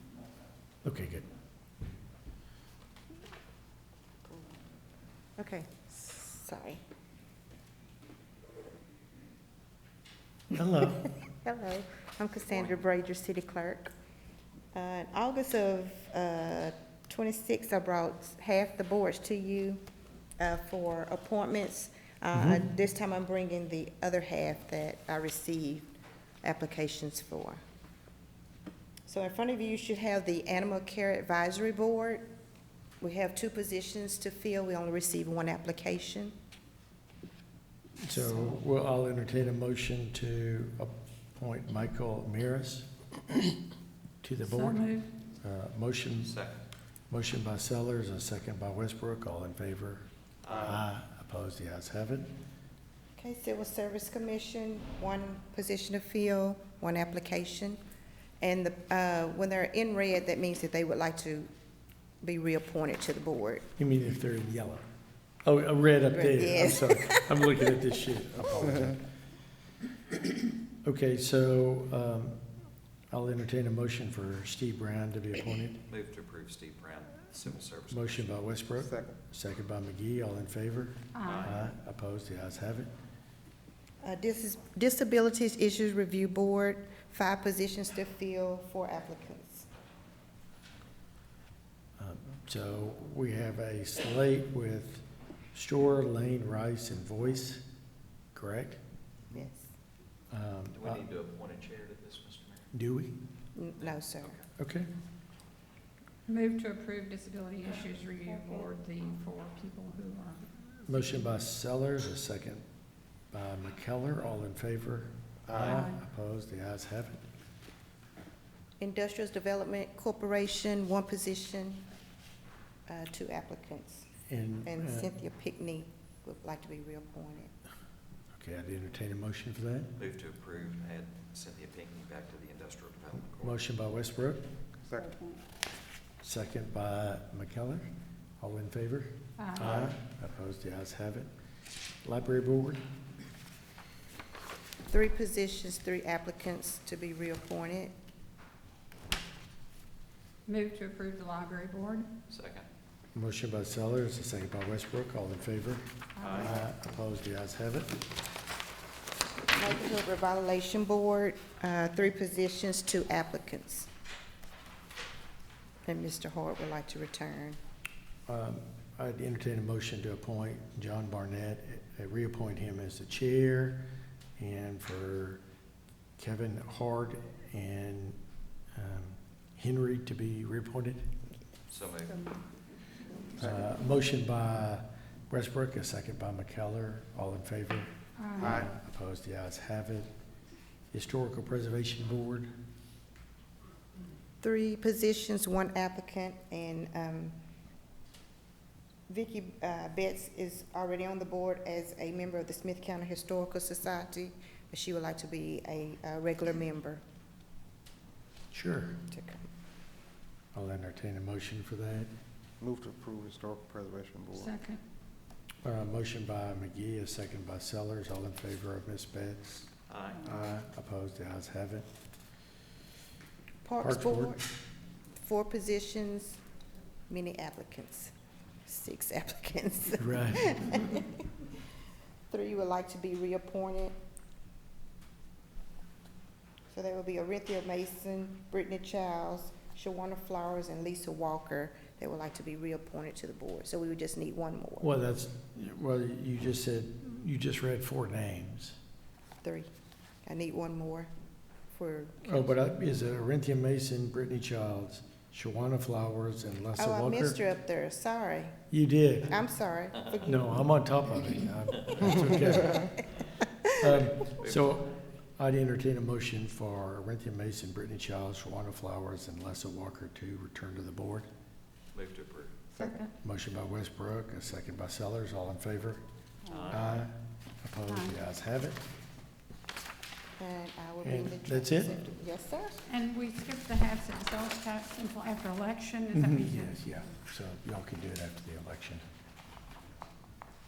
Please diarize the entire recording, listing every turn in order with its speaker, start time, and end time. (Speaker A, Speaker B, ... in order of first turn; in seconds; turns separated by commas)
Speaker A: 0.8-1.3, Speaker B: 5.4-6.8, Speaker A: 10.5-11.1, Speaker B: 11.1-13.9, Speaker B: 14.7-19.8, Speaker B: 20.4-27.6, Speaker A: 22.3-22.6, Speaker B: 29.1-32.2, Speaker B: 33.0-36.3, Speaker A: 38.0-42.9, Speaker A: 44.2-44.8, Speaker C: 44.4-45.1, Speaker A: 45.4-46.3, Speaker D: 46.2-46.6, Speaker A: 47.1-52.3, Speaker D: 50.4-50.8, Speaker B: 53.2-57.8, Speaker B: 58.4-61.5, Speaker B: 62.2-63.7, Speaker A: 63.8-64.8, Speaker A: 65.5-69.0, Speaker B: 66.1-67.4, Speaker A: 70.8-72.4, Speaker A: 73.1-75.8, Speaker D: 75.9-78.4, Speaker A: 77.9-82.9, Speaker E: 78.8-79.2, Speaker C: 81.2-81.5, Speaker D: 81.2-81.7, Speaker B: 84.0-89.7, Speaker A: 92.0-95.0, Speaker A: 95.5-97.6, Speaker A: 98.3-98.8, Speaker B: 99.3-99.7, Speaker A: 100.3-101.0, Speaker D: 100.7-102.7, Speaker A: 102.7-103.1, Speaker B: 103.6-104.4, Speaker D: 103.8-104.5, Speaker A: 104.6-104.9, Speaker C: 106.3-111.2, Speaker A: 110.9-112.6, Speaker A: 113.3-117.2, Speaker E: 115.5-115.8, Speaker C: 115.7-116.0, Speaker B: 118.8-121.9, Speaker B: 122.9-124.1, Speaker A: 124.3-125.1, Speaker B: 124.6-127.5, Speaker A: 128.3-129.9, Speaker D: 130.0-133.6, Speaker A: 133.4-134.4, Speaker A: 136.2-137.9, Speaker A: 138.4-141.3, Speaker C: 139.4-139.9, Speaker A: 142.0-142.8, Speaker B: 144.9-147.9, Speaker C: 150.5-152.1, Speaker D: 152.3-152.7, Speaker A: 153.2-155.8, Speaker C: 156.2-156.6, Speaker D: 156.2-156.6, Speaker A: 156.4-158.0, Speaker B: 159.5-163.9, Speaker B: 165.9-167.6, Speaker A: 168.3-173.8, Speaker A: 174.4-175.4, Speaker A: 176.2-178.2, Speaker A: 178.8-181.0, Speaker D: 181.7-182.2, Speaker E: 183.4-183.7, Speaker A: 183.4-190.1, Speaker C: 188.2-188.5, Speaker E: 188.4-188.7, Speaker A: 190.9-192.5, Speaker B: 194.4-197.3, Speaker B: 199.1-207.0, Speaker A: 208.5-209.0, Speaker B: 209.1-209.4, Speaker A: 210.6-212.1, Speaker E: 212.6-214.5, Speaker C: 214.4-214.8, Speaker A: 215.6-219.7, Speaker D: 219.9-220.3, Speaker A: 220.2-221.9, Speaker B: 223.6-224.4, Speaker A: 223.8-224.4, Speaker B: 225.2-226.4, Speaker B: 227.1-228.1, Speaker B: 228.7-231.2, Speaker A: 230.0-230.5, Speaker B: 232.3-233.9, Speaker B: 236.7-245.0, Speaker A: 244.8-248.8, Speaker B: 249.4-249.7, Speaker B: 250.2-251.1, Speaker B: 251.7-252.6, Speaker A: 252.2-257.4, Speaker B: 256.8-258.6, Speaker A: 258.7-259.4, Speaker B: 259.3-260.6, Speaker A: 260.2-263.1, Speaker A: 263.7-271.3, Speaker D: 271.9-272.7, Speaker C: 272.8-273.1, Speaker A: 273.2-276.0, Speaker C: 276.5-276.8, Speaker D: 276.5-277.1, Speaker A: 276.7-278.8, Speaker C: 277.9-278.2, Speaker B: 280.4-282.8, Speaker A: 281.0-282.0, Speaker C: 282.9-286.8, Speaker A: 286.1-289.0